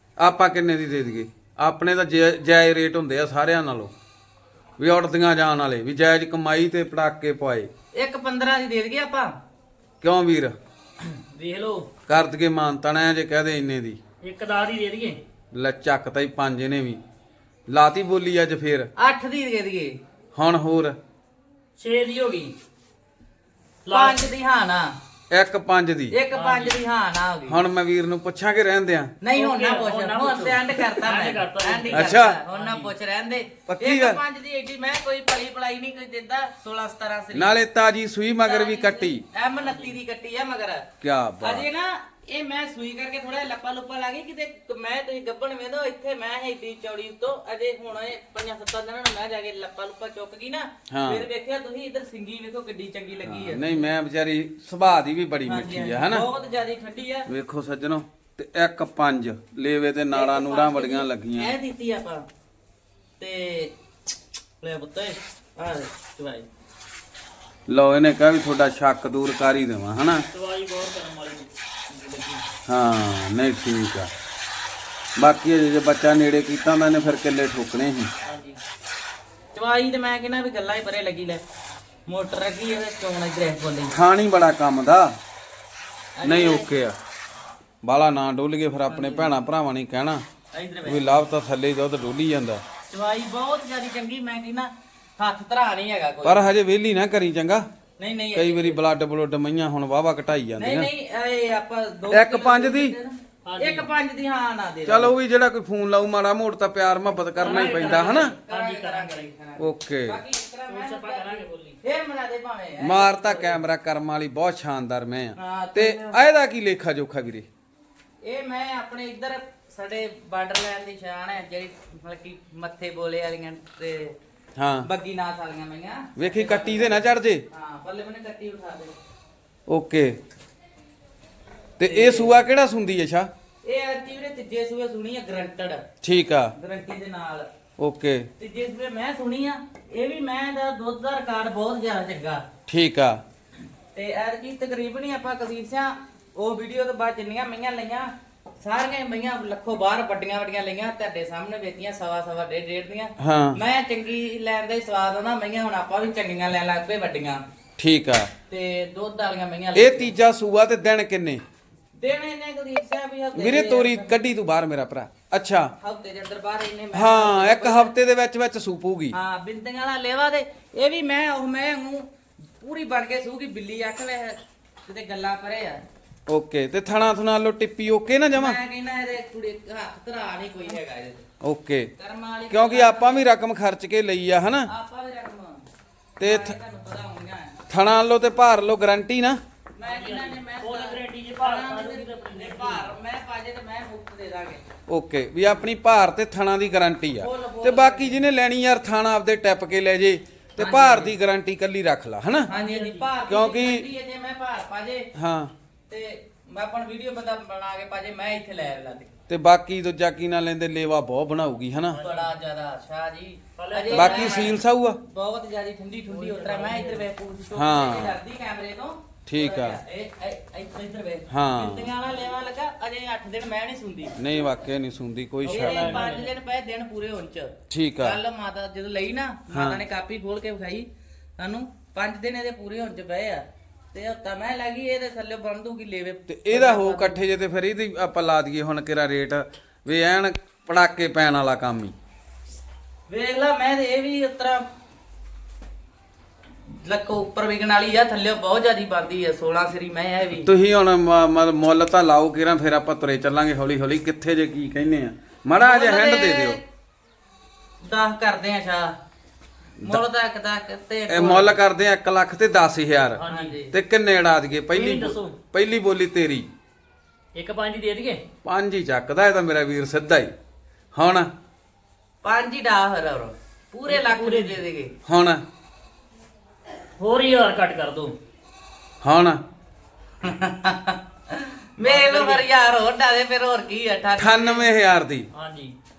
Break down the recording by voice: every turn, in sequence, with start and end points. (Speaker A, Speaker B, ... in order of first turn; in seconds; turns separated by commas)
Speaker A: 0.2-3.9, Speaker A: 4.8-7.7, Speaker B: 7.9-9.3, Speaker A: 10.0-10.5, Speaker C: 11.2-11.9, Speaker A: 12.1-14.0, Speaker C: 14.2-15.2, Speaker A: 15.5-17.0, Speaker A: 17.7-18.9, Speaker B: 19.0-20.0, Speaker A: 20.3-21.0, Speaker C: 21.8-22.5, Speaker C: 23.8-24.2, Speaker B: 23.9-24.9, Speaker A: 25.3-26.1, Speaker B: 26.1-27.6, Speaker C: 26.3-26.8, Speaker A: 27.5-29.1, Speaker B: 29.2-37.6, Speaker C: 29.3-32.9, Speaker A: 31.9-32.4, Speaker A: 33.7-34.2, Speaker A: 37.3-39.2, Speaker B: 38.4-40.9, Speaker C: 39.6-39.9, Speaker A: 41.0-41.6, Speaker B: 41.4-53.8, Speaker A: 50.9-51.3, Speaker A: 53.2-56.3, Speaker B: 55.5-57.3, Speaker A: 57.3-61.5, Speaker B: 60.1-62.3, Speaker B: 63.2-63.7, Speaker B: 64.6-66.5, Speaker A: 67.7-70.3, Speaker C: 70.3-72.4, Speaker A: 72.7-74.1, Speaker A: 75.2-78.1, Speaker C: 78.2-78.6, Speaker B: 79.5-81.4, Speaker B: 82.1-83.9, Speaker A: 83.9-85.1, Speaker B: 86.2-86.7, Speaker A: 86.2-87.0, Speaker A: 87.8-90.2, Speaker B: 88.9-89.3, Speaker B: 90.5-91.0, Speaker A: 90.8-92.6, Speaker B: 92.9-96.5, Speaker A: 96.2-97.7, Speaker B: 98.0-98.8, Speaker A: 98.3-100.9, Speaker B: 100.6-105.2, Speaker A: 102.1-102.9, Speaker C: 103.4-103.9, Speaker A: 104.9-108.3, Speaker C: 107.3-109.3, Speaker B: 107.4-113.6, Speaker A: 109.6-110.2, Speaker C: 110.7-111.8, Speaker A: 112.8-117.5, Speaker B: 115.3-116.2, Speaker B: 118.2-124.2, Speaker A: 124.5-124.9, Speaker B: 124.8-128.9, Speaker A: 126.2-127.4, Speaker A: 129.7-130.2, Speaker A: 131.8-133.3, Speaker B: 131.8-132.4, Speaker B: 133.6-135.8, Speaker A: 136.0-136.5, Speaker B: 136.6-137.5, Speaker A: 137.8-138.3, Speaker B: 138.4-142.4, Speaker A: 142.7-143.2, Speaker B: 143.9-157.4, Speaker A: 153.2-153.6, Speaker A: 157.8-158.3, Speaker B: 158.5-160.1, Speaker A: 159.7-161.4, Speaker B: 162.0-164.2, Speaker A: 163.3-165.7, Speaker B: 165.8-167.9, Speaker A: 166.9-169.2, Speaker B: 169.1-172.1, Speaker B: 172.6-175.8, Speaker A: 176.3-178.6, Speaker B: 178.3-181.2, Speaker A: 181.4-181.9, Speaker B: 182.0-183.3, Speaker A: 182.5-184.7, Speaker B: 184.7-185.6, Speaker A: 186.2-186.6, Speaker B: 186.2-187.6, Speaker A: 187.7-189.4, Speaker B: 189.8-194.6, Speaker C: 189.8-192.9, Speaker A: 194.9-202.5, Speaker B: 197.2-198.2, Speaker B: 200.6-201.1, Speaker B: 202.5-205.1, Speaker C: 202.5-203.1, Speaker A: 203.2-203.9, Speaker A: 205.1-205.5, Speaker B: 205.9-209.1, Speaker A: 209.3-212.0, Speaker C: 211.9-212.3, Speaker B: 212.0-224.1, Speaker C: 213.6-214.6, Speaker A: 213.9-215.0, Speaker C: 216.1-217.0, Speaker A: 217.5-218.2, Speaker A: 219.3-219.8, Speaker A: 221.3-221.9, Speaker A: 224.2-226.0, Speaker C: 225.4-226.3, Speaker B: 225.5-237.2, Speaker A: 227.7-228.2, Speaker A: 229.5-229.8, Speaker A: 236.3-241.9, Speaker B: 243.1-244.6, Speaker B: 246.7-250.5, Speaker A: 250.4-256.6, Speaker B: 255.6-256.6, Speaker B: 257.8-258.9, Speaker B: 259.8-261.6, Speaker A: 261.1-266.5, Speaker C: 263.2-263.6, Speaker B: 263.3-263.8, Speaker C: 264.7-265.4, Speaker C: 267.3-268.2, Speaker A: 268.4-270.3, Speaker A: 270.9-271.3, Speaker B: 272.2-274.9, Speaker C: 273.9-274.6, Speaker A: 275.1-275.4, Speaker C: 277.0-278.1, Speaker A: 279.0-279.4, Speaker B: 280.2-284.7, Speaker C: 281.8-282.4, Speaker A: 284.2-285.3, Speaker C: 285.3-285.7